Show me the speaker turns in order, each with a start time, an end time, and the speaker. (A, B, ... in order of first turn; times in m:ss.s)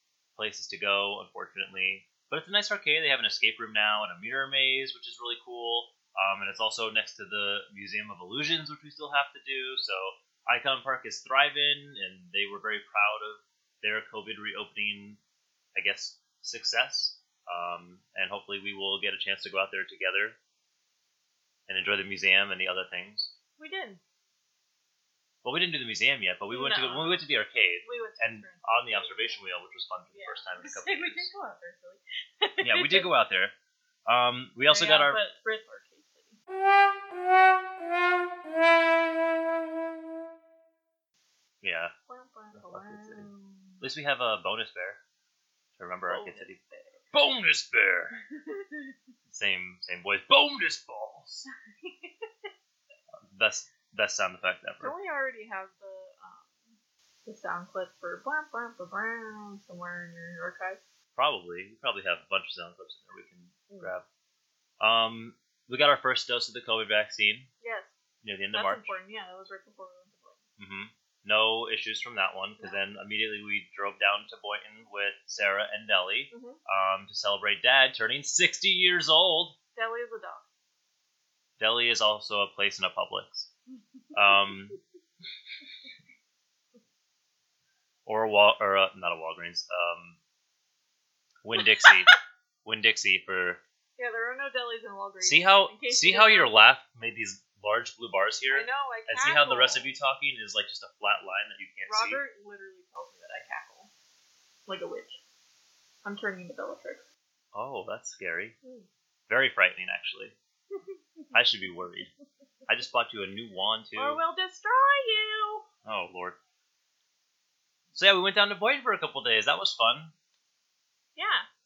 0:00.4-0:15.2 A
0:15.7-0:20.4 A
0:21.7-0:23.3 A
0:23.6-0:24.0 B
0:25.4-0:31.3 A
0:26.5-0:27.3 B
0:27.8-0:29.4 B
0:30.1-0:33.1 B
0:32.6-0:33.5 A
0:34.0-0:35.2 A
0:34.7-0:36.4 B
0:41.6-0:41.9 A
0:42.1-0:43.8 B
0:42.5-0:43.3 A
0:43.8-0:45.0 A
0:45.8-0:46.6 A
0:46.1-0:47.0 B
0:47.1-0:48.2 A
0:48.5-0:48.9 B
0:49.3-0:51.4 A
0:51.8-0:52.3 B
0:53.2-0:54.9 A
0:54.8-1:00.8 B
1:01.2-1:04.0 A
1:04.8-1:07.5 A
1:07.6-1:08.0 B
1:08.2-1:08.9 A
1:08.5-1:10.4 B
1:10.6-1:19.5 A
1:16.3-1:16.6 B
1:19.7-1:20.5 B
1:21.6-1:23.5 A
1:24.0-1:24.5 B
1:24.1-1:24.8 A
1:28.0-1:30.2 A
1:31.4-1:32.1 A
1:32.6-1:33.6 A
1:34.0-1:36.6 B
1:35.2-1:42.2 A
1:38.5-1:39.9 B
1:41.9-1:43.9 B
1:44.6-1:45.2 B
1:46.0-1:47.0 B
1:47.5-1:48.6 A
1:48.6-1:48.9 B
1:49.3-1:50.4 A
1:50.7-1:51.3 B
1:51.3-1:52.1 A
1:52.7-1:54.2 A
1:54.0-1:55.6 B
1:55.8-1:56.4 A
1:57.9-2:00.1 A
2:01.2-2:01.5 B